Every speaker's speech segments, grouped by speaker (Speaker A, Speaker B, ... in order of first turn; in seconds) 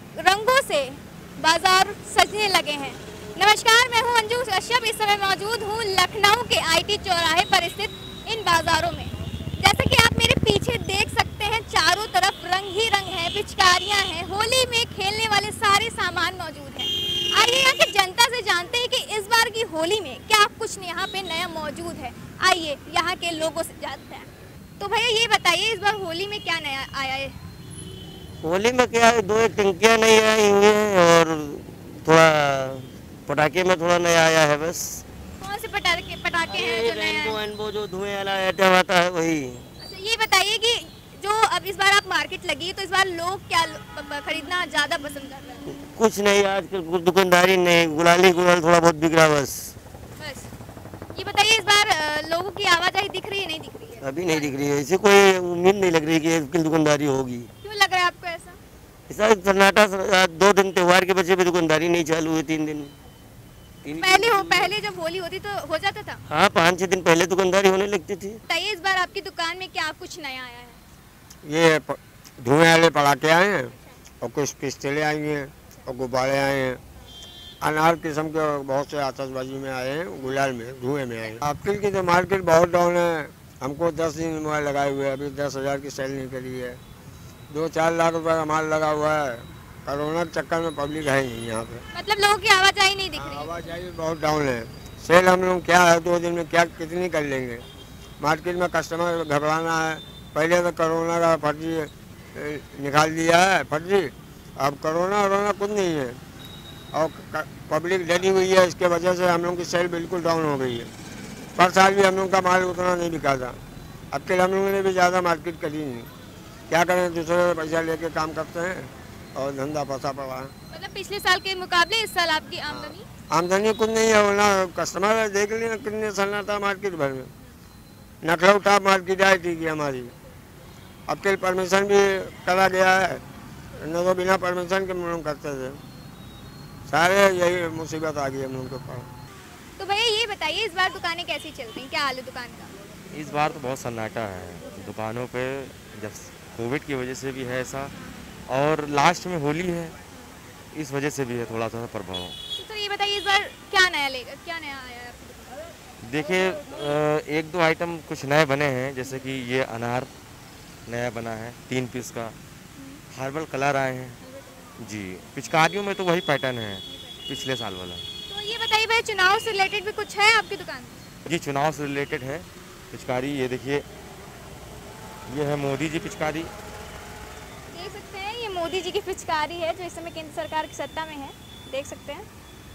Speaker A: 0.2-27.4, 35.4-37.4, 39.8-45.8, 50.2-50.5, 51.1-54.6, 57.6-58.6, 64.0-66.2, 68.5-70.8, 91.9-93.6, 120.7-123.1, 139.8-142.7, 147.9-148.3, 152.5-155.7, 162.8-163.0, 166.9-167.4, 168.3-171.0, 177.7-182.2
Speaker B: 28.4-35.0, 36.5-39.6, 46.0-49.7, 54.0-57.5, 59.1-62.9, 63.8-64.7, 66.3-68.4
Speaker C: 71.5-76.8, 77.6-86.8, 87.5-91.8, 93.2-97.6, 98.2-106.2, 106.9-110.9, 111.6-113.6, 114.1-116.1, 116.7-120.5, 122.7-127.3, 128.2-130.1, 131.1-133.2, 133.8-135.8, 136.9-139.1
Speaker D: 143.1-147.9, 148.5-150.0, 150.7-152.4, 156.0-160.1, 160.9-162.4, 163.1-164.2, 164.8-168.1, 171.3-173.9, 175.3-176.5